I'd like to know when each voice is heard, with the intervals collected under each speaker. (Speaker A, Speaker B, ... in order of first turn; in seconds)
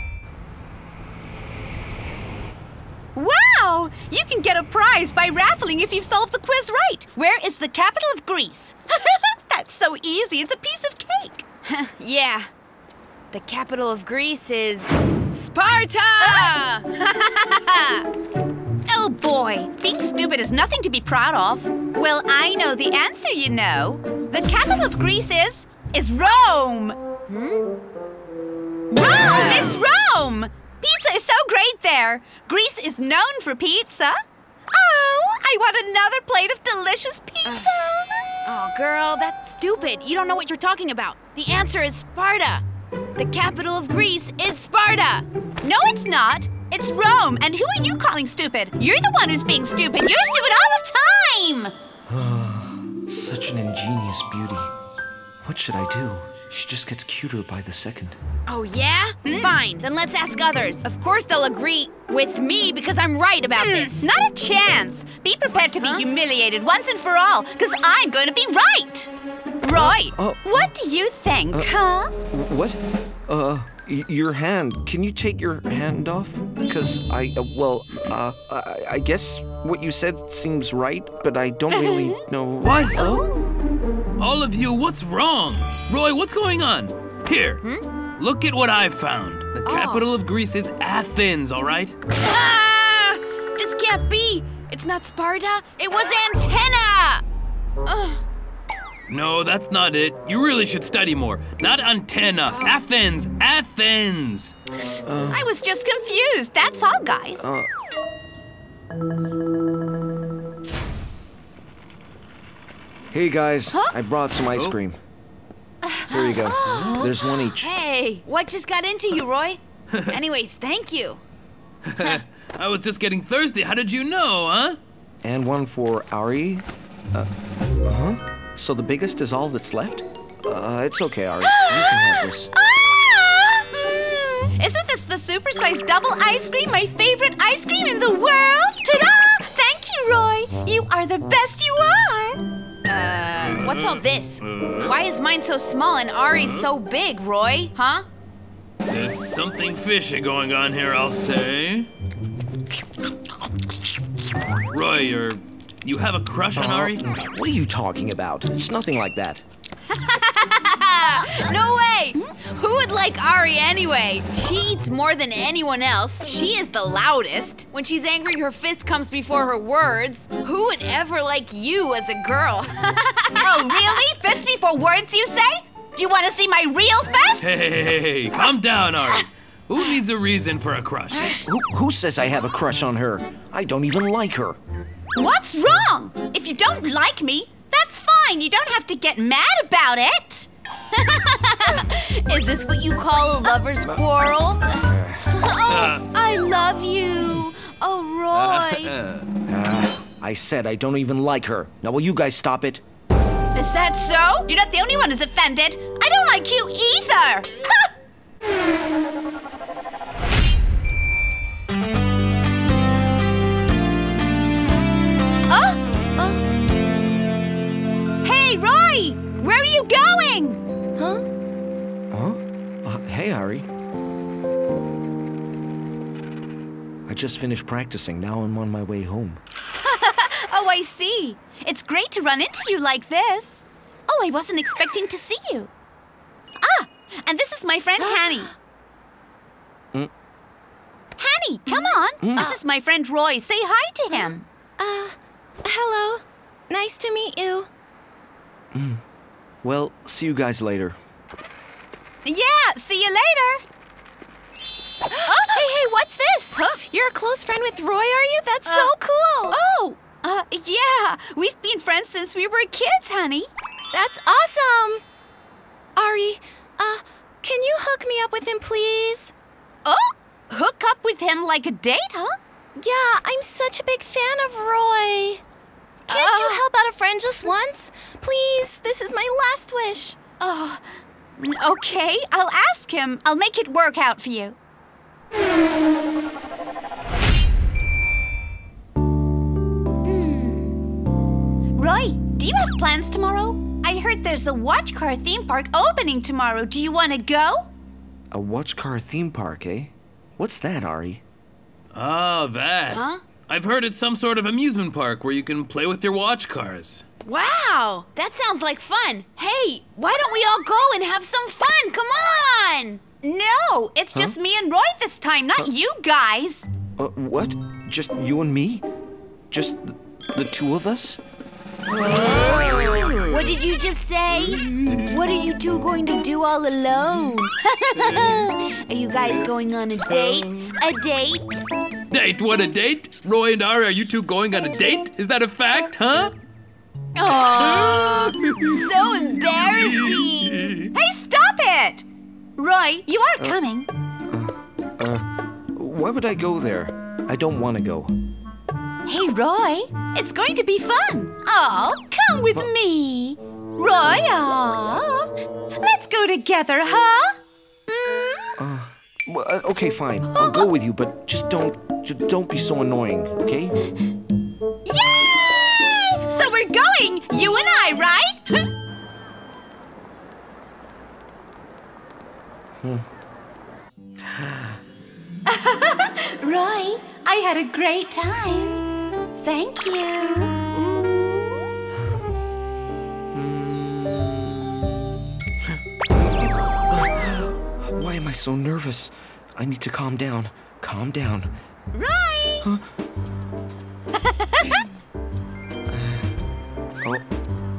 Speaker A: 3.1-11.4, 16.2-16.5, 18.9-27.0, 28.9-34.2, 34.7-38.0, 45.6-51.7, 59.2-59.5, 63.5-69.1, 69.6-72.1, 104.8-107.5, 131.6-142.4, 173.4-177.6, 185.2-190.5, 203.5-207.6, 215.5-215.8, 218.2-220.6, 229.8-235.7, 236.6-238.5, 241.2-244.4, 252.2-253.6, 255.3-255.7, 256.5-256.8, 258.6-258.9, 259.5-263.5, 269.8-272.4, 276.1-276.6, 280.4-280.8, 281.4-284.6, 290.0-290.7, 291.8-297.7, 313.2-316.7, 337.2-342.0, 342.6-343.9, 349.0-355.3, 355.8-357.4, 357.9-358.5, 360.3-360.7, 364.8-368.6, 375.5-378.9, 379.4-380.5, 391.9-392.6, 394.2-394.8
Speaker B: 11.7-12.5, 13.3-18.0, 27.3-27.6, 29.0-29.8, 37.4-37.7, 38.4-42.6, 43.1-45.3, 58.5-64.0, 89.6-90.1, 92.2-97.2, 97.8-98.2, 115.9-121.2, 142.8-148.0, 159.9-174.0, 191.0-198.9, 302.9-303.2, 307.2-313.0, 323.3-331.5
Speaker C: 52.1-54.7, 55.4-58.2, 69.8-70.5, 72.3-83.2, 105.0-105.5, 107.4-107.7, 113.1-115.0, 116.1-117.7, 125.2-127.3, 127.8-132.5, 156.5-159.4, 181.4-184.6, 194.8-195.2, 199.5-202.8, 222.1-223.7, 227.1-229.4, 242.2-242.5, 248.7-249.0, 249.6-251.0, 298.3-301.2, 317.0-318.9, 319.5-321.2, 344.3-348.1, 358.6-363.7, 383.3-384.5, 385.7-391.5, 395.9-396.3
Speaker D: 82.6-83.0, 84.2-87.6, 88.2-92.0, 99.1-104.5, 121.8-124.8, 143.4-143.9, 144.5-144.9, 148.9-151.9, 154.7-157.1, 177.4-181.4, 195.7-196.0, 198.3-199.3, 301.9-307.0, 332.1-336.3
Speaker E: 221.0-221.2, 238.0-238.5, 242.3-242.6, 244.1-247.7, 255.1-259.6, 263.9-265.0, 265.9-269.3, 272.8-275.4, 276.1-280.2